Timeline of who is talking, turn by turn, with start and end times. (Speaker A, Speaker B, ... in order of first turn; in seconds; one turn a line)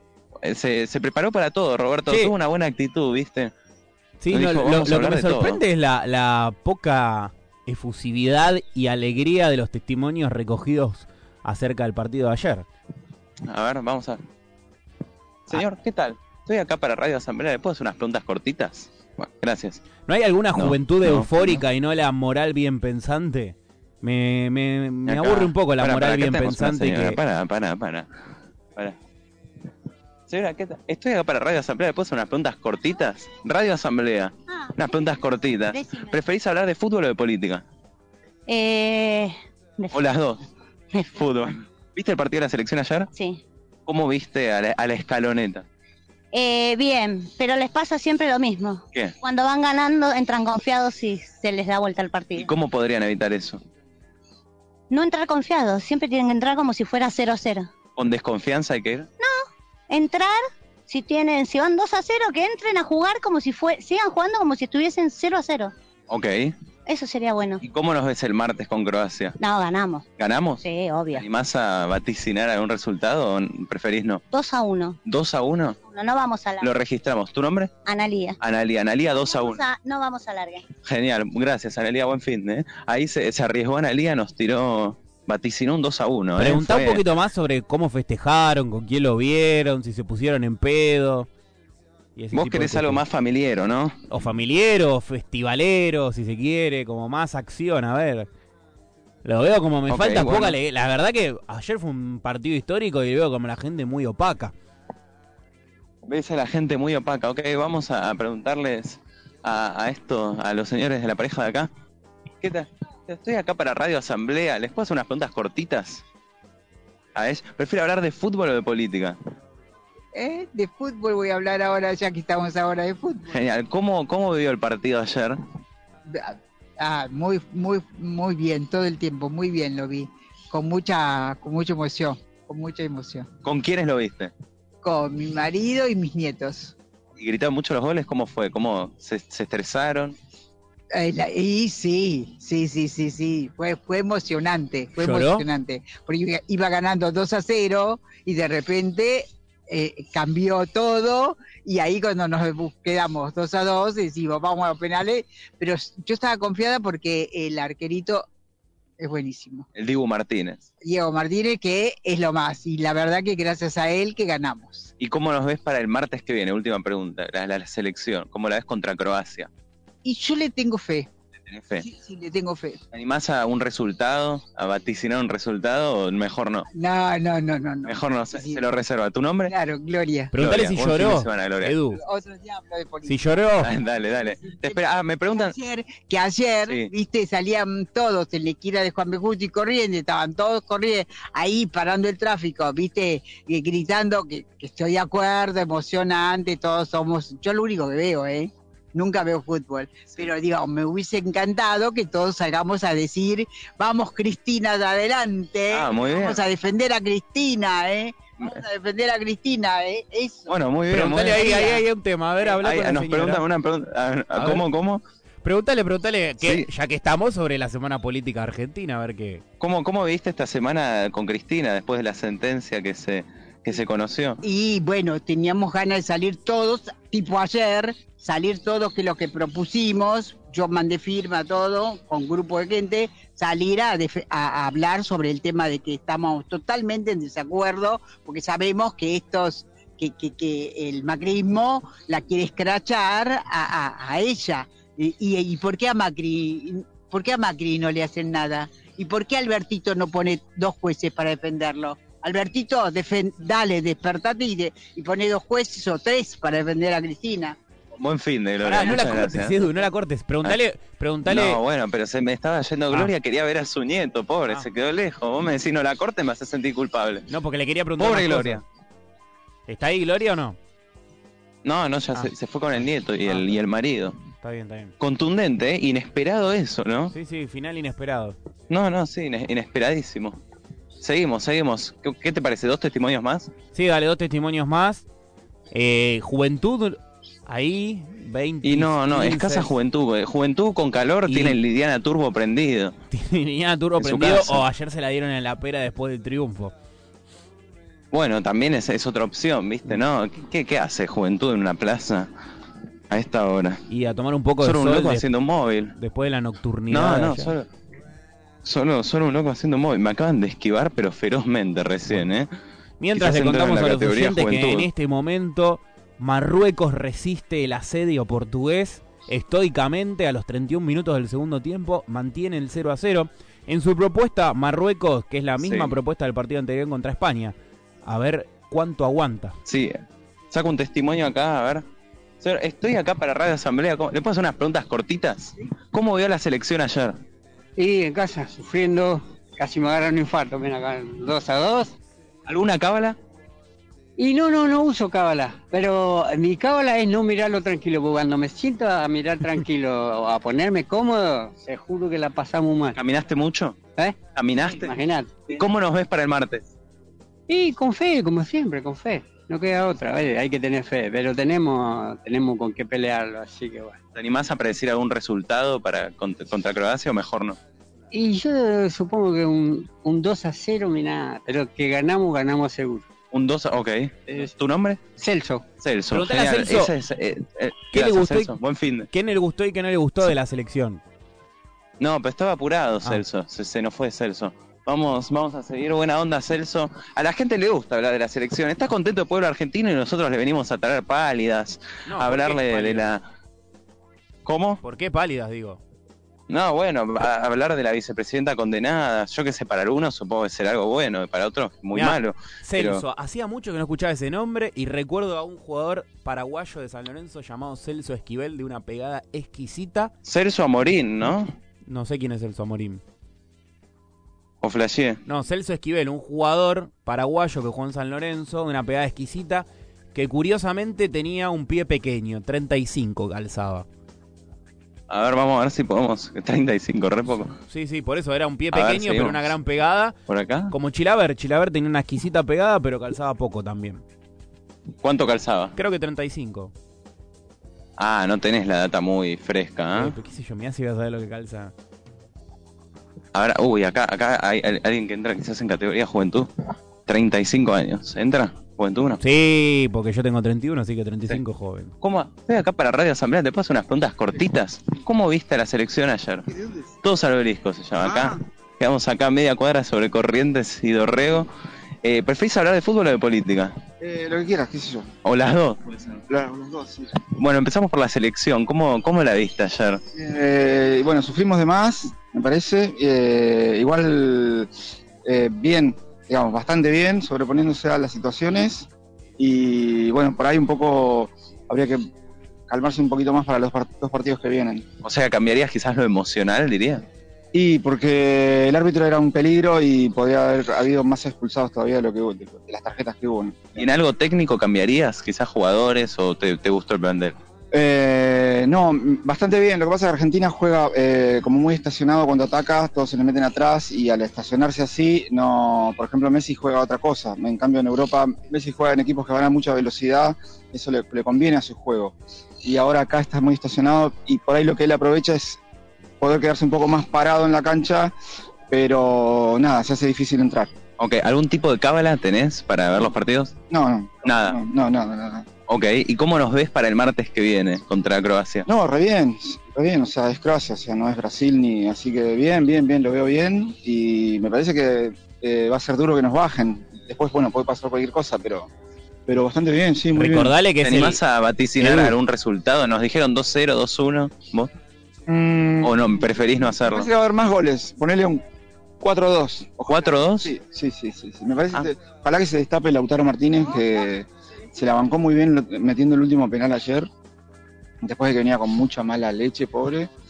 Speaker A: 0.4-3.5
Speaker B: 4.2-12.7
Speaker A: 4.3-5.6
Speaker A: 13.5-14.2
Speaker A: 15.5-19.8
Speaker B: 20.1-27.2
Speaker A: 20.5-21.6
Speaker A: 25.1-28.1
Speaker A: 30.3-37.6
Speaker C: 35.7-36.1
Speaker C: 38.5-40.0
Speaker A: 39.9-40.4
Speaker A: 41.0-43.1
Speaker C: 43.1-43.4
Speaker A: 43.9-45.6
Speaker C: 46.3-52.5
Speaker A: 52.4-53.6
Speaker C: 54.9-57.7
Speaker A: 58.0-59.1
Speaker C: 59.2-65.7
Speaker A: 66.1-66.5
Speaker C: 66.8-67.6
Speaker A: 67.6-69.3
Speaker C: 69.4-70.0
Speaker A: 70.2-74.2
Speaker C: 70.6-71.2
Speaker C: 74.3-75.0
Speaker A: 75.0-75.8
Speaker C: 75.8-76.7
Speaker A: 76.6-77.7
Speaker C: 77.8-78.4
Speaker A: 78.4-79.6
Speaker C: 79.2-80.7
Speaker A: 80.8-87.0
Speaker B: 86.4-91.3
Speaker B: 92.2-93.0
Speaker A: 92.3-94.1
Speaker B: 94.1-98.3
Speaker B: 99.2-104.5
Speaker A: 99.9-100.6
Speaker A: 106.1-111.7
Speaker A: 112.4-116.0
Speaker A: 117.1-119.2
Speaker D: 120.1-123.3
Speaker A: 123.3-125.4
Speaker D: 126.1-133.3
Speaker A: 133.4-134.3
Speaker D: 134.8-136.7
Speaker A: 137.2-140.2
Speaker D: 140.9-158.3
Speaker B: 145.0-145.4
Speaker D: 159.0-159.7
Speaker A: 159.7-160.7
Speaker D: 160.8-164.9
Speaker A: 165.0-169.5
Speaker D: 170.0-171.1
Speaker A: 171.5-171.8
Speaker D: 171.8-172.8
Speaker A: 172.9-176.7
Speaker D: 176.7-178.6
Speaker A: 177.8-179.5
Speaker D: 179.5-180.3
Speaker B: 180.3-182.0
Speaker A: 180.3-181.8
Speaker D: 181.9-183.2
Speaker B: 183.1-183.7
Speaker A: 183.6-185.5
Speaker D: 184.2-184.8
Speaker D: 185.3-210.6
Speaker A: 205.7-206.4
Speaker A: 210.5-211.7
Speaker B: 210.9-213.4
Speaker D: 211.3-211.8
Speaker A: 212.4-215.0
Speaker B: 214.3-214.6
Speaker B: 215.4-219.4
Speaker A: 216.4-216.7
Speaker A: 219.6-224.4
Speaker D: 224.4-257.6
Speaker A: 258.0-259.6
Speaker B: 258.6-261.6
Speaker A: 261.2-267.3
Speaker B: 267.3-268.6
Speaker A: 268.0-268.6
Speaker B: 269.7-270.6
Speaker A: 271.6-274.1
Speaker B: 273.2-273.5
Speaker B: 274.4-274.9
Speaker A: 275.0-277.1
Speaker B: 277.1-278.4
Speaker A: 278.7-280.4
Speaker A: 281.0-283.5
Speaker B: 283.7-285.0
Speaker B: 285.7-289.7
Speaker A: 288.6-292.9
Speaker B: 291.3-291.6
Speaker B: 293.1-296.7
Speaker A: 294.0-294.6
Speaker A: 298.1-302.3
Speaker A: 303.1-303.8
Speaker B: 303.9-305.2
Speaker A: 304.6-305.9
Speaker B: 305.9-307.5
Speaker A: 306.9-307.7
Speaker A: 308.6-312.5
Speaker B: 313.0-329.6
Speaker A: 313.1-314.9
Speaker A: 325.6-325.9
Speaker A: 329.6-329.9
Speaker A: 330.5-331.8
Speaker A: 332.4-337.2
Speaker E: 337.8-341.9
Speaker A: 342.5-343.1
Speaker E: 344.2-353.0
Speaker A: 352.9-353.8
Speaker A: 354.3-354.9
Speaker E: 354.7-355.4
Speaker A: 355.5-356.6
Speaker E: 357.5-364.0
Speaker A: 364.1-367.6
Speaker E: 368.1-373.1
Speaker A: 373.3-375.0
Speaker E: 375.2-375.6
Speaker A: 375.8-379.1
Speaker B: 376.1-376.9
Speaker B: 377.9-378.5
Speaker B: 379.1-381.0
Speaker A: 382.0-393.2
Speaker B: 392.1-393.1
Speaker A: 394.4-394.8
Speaker B: 394.8-395.8
Speaker A: 396.5-403.0
Speaker B: 401.9-410.1
Speaker A: 410.2-411.5
Speaker B: 411.9-413.0
Speaker A: 414.6-415.2
Speaker B: 415.2-423.9
Speaker A: 425.1-427.6
Speaker B: 427.7-430.1
Speaker A: 428.7-429.5
Speaker A: 430.3-430.7
Speaker B: 430.7-434.0
Speaker A: 435.0-435.7
Speaker B: 435.8-436.7
Speaker A: 438.0-440.1
Speaker B: 439.9-441.7
Speaker A: 443.3-446.5
Speaker A: 447.1-449.2
Speaker B: 449.2-451.9
Speaker A: 452.0-456.5
Speaker F: 456.6-456.9
Speaker A: 457.0-461.5
Speaker F: 458.0-458.4
Speaker A: 462.0-463.7
Speaker F: 464.0-465.1
Speaker A: 465.2-466.2
Speaker F: 466.3-467.2
Speaker A: 467.4-470.0
Speaker F: 470.1-474.7
Speaker F: 475.2-482.0
Speaker F: 482.7-484.8
Speaker A: 485.0-487.0
Speaker F: 487.5-493.9
Speaker A: 493.8-497.3
Speaker F: 497.7-515.6
Speaker F: 516.2-518.1
Speaker F: 518.7-520.7
Speaker A: 521.0-523.5
Speaker F: 523.7-525.5
Speaker A: 524.2-524.6
Speaker A: 525.7-528.7
Speaker F: 528.7-538.7
Speaker F: 539.3-540.5
Speaker B: 540.1-541.2
Speaker A: 540.8-544.7
Speaker B: 541.8-542.1
Speaker F: 545.3-546.1
Speaker A: 545.8-547.1
Speaker F: 546.8-548.4
Speaker F: 549.0-557.1
Speaker A: 549.9-550.5
Speaker F: 558.0-560.1